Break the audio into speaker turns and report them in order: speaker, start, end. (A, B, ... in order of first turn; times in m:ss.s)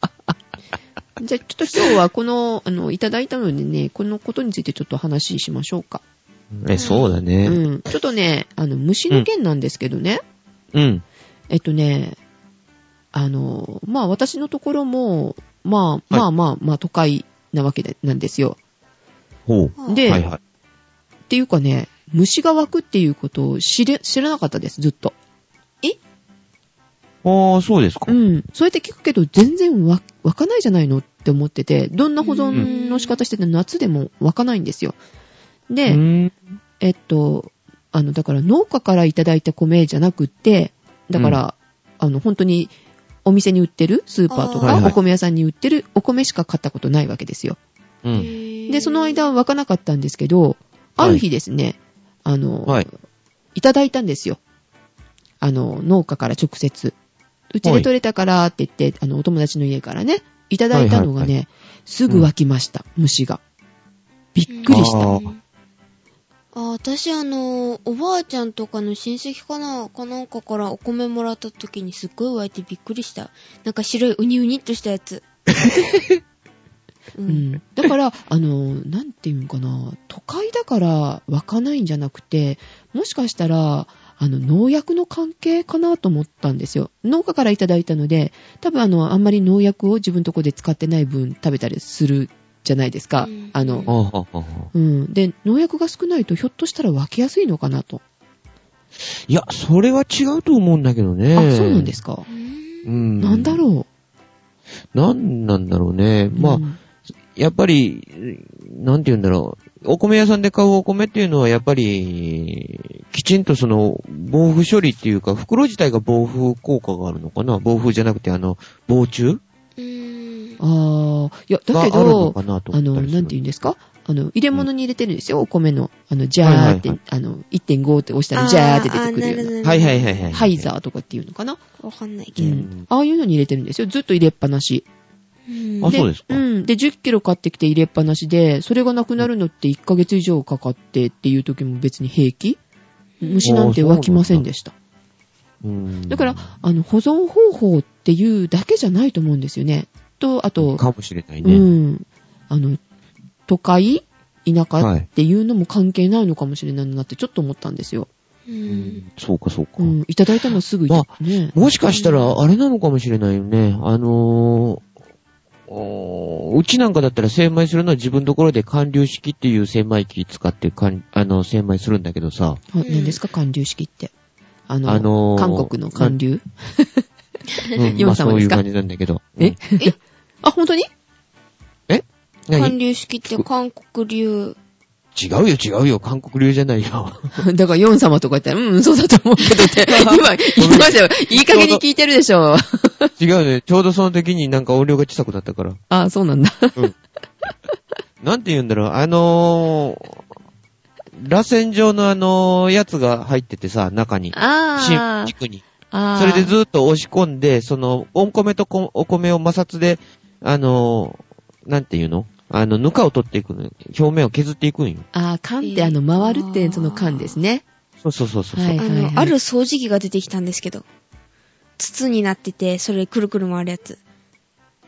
0:01.2-0:06.0 A
0:06.5-0:07.6 B
0:06.8-0:07.2 C
0:07.4-0:10.2 A
0:10.7-0:11.0 B
0:11.5-0:12.2 A
0:13.1-0:18.6 A
0:19.4-0:20.4 B
0:19.8-0:20.1 C
0:19.9-0:20.2 A
0:21.3-0:25.1 A
0:27.2-0:28.1 B
0:28.1-0:35.0 A
0:32.2-0:33.2 C
0:35.7-0:36.0 A
0:35.8-0:36.4 B
0:36.8-0:47.6 A
0:41.1-0:41.4 B
0:44.3-0:45.0 C
0:44.6-0:44.9 B
0:48.0-0:48.3 B
0:48.1-0:49.3 C
0:48.7-0:52.9 A
0:53.5-0:54.4 A
0:55.4-0:56.9 A
0:57.5-1:03.4 A
0:57.6-0:57.9 B
1:00.7-1:01.3 B
1:04.3-1:05.1 A
1:04.5-1:05.4 C
1:04.7-1:05.2 B
1:06.5-1:15.2 C
1:15.5-1:16.2 B
1:17.2-1:17.5 C
1:17.3-1:33.9 A
1:33.2-1:33.9 C
1:33.9-1:34.7 B
1:34.7-1:38.0 A
1:39.3-1:42.0 B
1:41.3-1:42.2 A
1:42.3-1:42.9 C
1:42.8-1:43.6 B
1:43.2-1:43.9 A
1:44.9-1:46.6 B
1:46.3-1:46.8 A
1:47.4-1:59.4 B
1:59.8-2:00.6 C
2:00.6-2:09.5 A
2:01.7-2:03.4 B
2:06.4-2:07.0 B
2:08.3-2:10.3 C
2:09.6-2:10.7 B
2:10.3-2:11.6 A
2:11.8-2:12.6 C
2:12.4-2:12.9 B
2:12.4-2:14.8 A
2:15.5-2:16.0 C
2:15.8-2:16.4 B
2:15.9-2:22.6 A
2:23.2-2:23.5 C
2:23.2-2:24.7 A
2:23.4-2:24.4 B
2:25.6-2:26.5 B
2:26.1-2:30.8 A
2:30.6-2:31.6 B
2:31.4-2:32.8 A
2:33.5-2:38.1 A
2:34.8-2:35.1 B
2:38.5-2:39.0 C
2:38.7-2:44.8 B
2:39.8-2:41.7 A
2:41.9-2:42.4 C
2:45.7-2:52.6 B
2:52.7-2:54.1 A
2:52.8-2:53.2 C
2:54.7-2:57.0 A
2:54.8-2:56.2 B
2:57.7-2:59.6 B
2:58.0-2:58.6 A
2:59.4-3:00.9 A
3:01.9-3:02.8 B
3:02.5-3:04.6 C
3:05.1-3:07.4 B
3:07.3-3:13.1 A
3:09.4-3:11.8 B
3:13.2-3:15.8 B
3:15.9-3:16.8 A
3:18.2-3:20.2 B
3:21.1-3:35.1 B
3:24.3-3:25.3 A
3:25.9-3:26.5 A
3:35.1-3:37.6 A
3:35.6-3:37.4 C
3:38.0-3:38.8 B
3:38.5-3:39.3 A
3:38.8-3:40.8 C
3:41.8-3:44.0 C